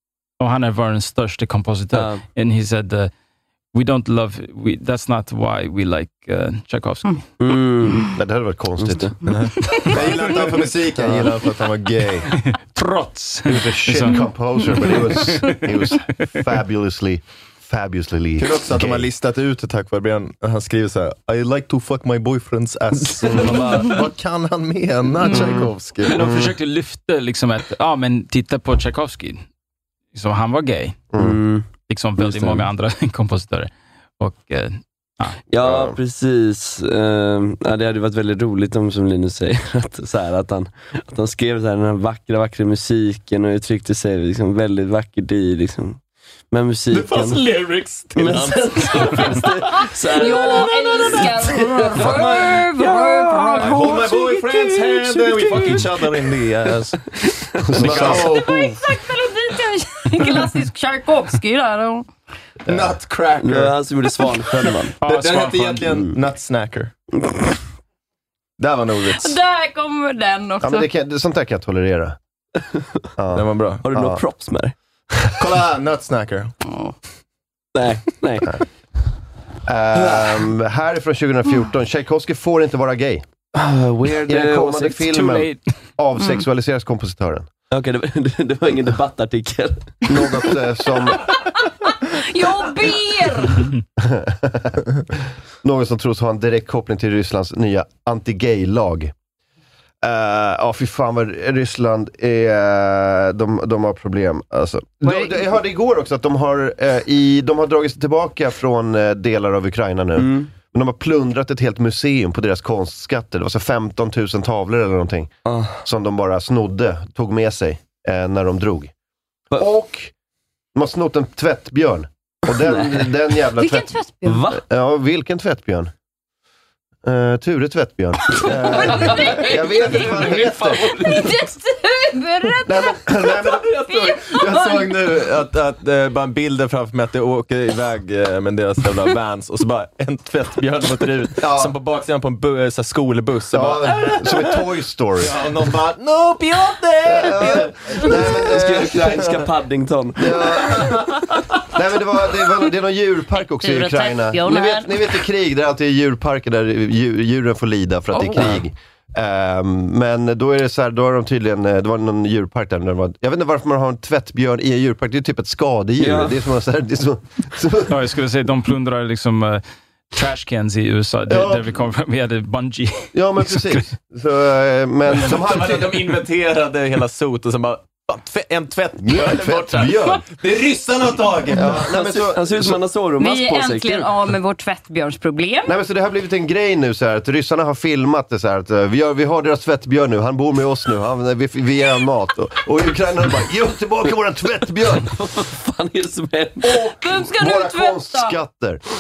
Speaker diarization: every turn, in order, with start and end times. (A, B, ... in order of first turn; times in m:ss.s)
0:00.4-0:03.1 A
0:01.9-0:02.2 B
0:03.7-0:07.2 A
0:07.4-0:08.1 B
0:08.2-0:09.1 C
0:08.9-0:09.1 B
0:09.2-0:12.3 D
0:09.9-0:11.4 C
0:12.0-0:12.2 C
0:12.4-0:14.2 A
0:13.4-0:19.1 C
0:14.9-0:15.7 A
0:18.4-0:26.2 D
0:25.3-0:25.6 E
0:25.3-0:25.7 C
0:26.1-0:29.4 A
0:26.2-0:26.5 C
0:30.1-0:31.0 A
0:31.1-0:31.4 C
0:31.2-0:31.7 B
0:31.9-0:35.4 A
0:32.2-0:32.7 B
0:35.5-0:46.0 B
0:35.6-0:36.0 C
0:46.5-0:47.4 B
0:46.9-0:49.5 D
0:48.2-0:54.1 B
0:50.1-0:54.9 E
0:51.9-0:52.5 D
0:53.5-0:57.0 D
0:54.9-0:56.0 B
0:57.6-0:58.8 D
0:57.7-0:58.4 C
0:58.0-1:02.1 E
1:02.7-1:03.0 C
1:02.7-1:06.9 D
1:03.4-1:05.0 B
1:05.0-1:05.9 A
1:07.2-1:07.6 B
1:08.6-1:09.4 D
1:09.1-1:10.9 E
1:10.6-1:12.2 C
1:13.2-1:14.2 C
1:13.3-1:13.8 D
1:13.8-1:14.8 B
1:15.4-1:16.5 D
1:16.7-1:16.9 E
1:17.8-1:18.6 B
1:19.7-1:23.2 C
1:20.0-1:20.4 B
1:23.6-1:25.0 B
1:24.3-1:27.5 C
1:25.0-1:25.6 A
1:27.7-1:30.3 B
1:30.1-1:31.3 C
1:31.9-1:33.8 E
1:34.0-1:34.8 C
1:35.6-1:39.1 C
1:40.0-1:58.9 C
1:45.0-1:45.3 E
1:50.2-1:50.5 B
1:55.5-1:55.8 B
1:59.6-2:00.1 C
2:00.8-2:03.9 C
2:02.5-2:03.1 B
2:03.6-2:04.4 E
2:04.2-2:04.6 B
2:04.5-2:05.9 C
2:07.0-2:11.1 C
2:08.4-2:10.0 E
2:08.5-2:11.3 B
2:11.0-2:14.9 E
2:12.6-2:14.4 C
2:14.3-2:24.6 D
2:21.4-2:21.8 C
2:23.5-2:25.4 C
2:25.2-2:28.1 D
2:27.0-2:29.5 C
2:28.1-2:31.0 B
2:30.2-2:48.0 C
2:33.6-2:35.1 E
2:46.0-2:46.4 B
2:47.9-2:53.8 A
2:51.3-2:51.7 C
2:53.1-2:56.2 C
2:55.2-3:01.9 D
2:59.0-3:00.3 C
3:01.5-3:02.8 C
3:01.9-3:04.1 B
3:03.2-3:05.7 E
3:05.7-3:15.2 C
3:15.0-3:16.8 B
3:16.6-3:18.8 C
3:17.0-3:18.3 E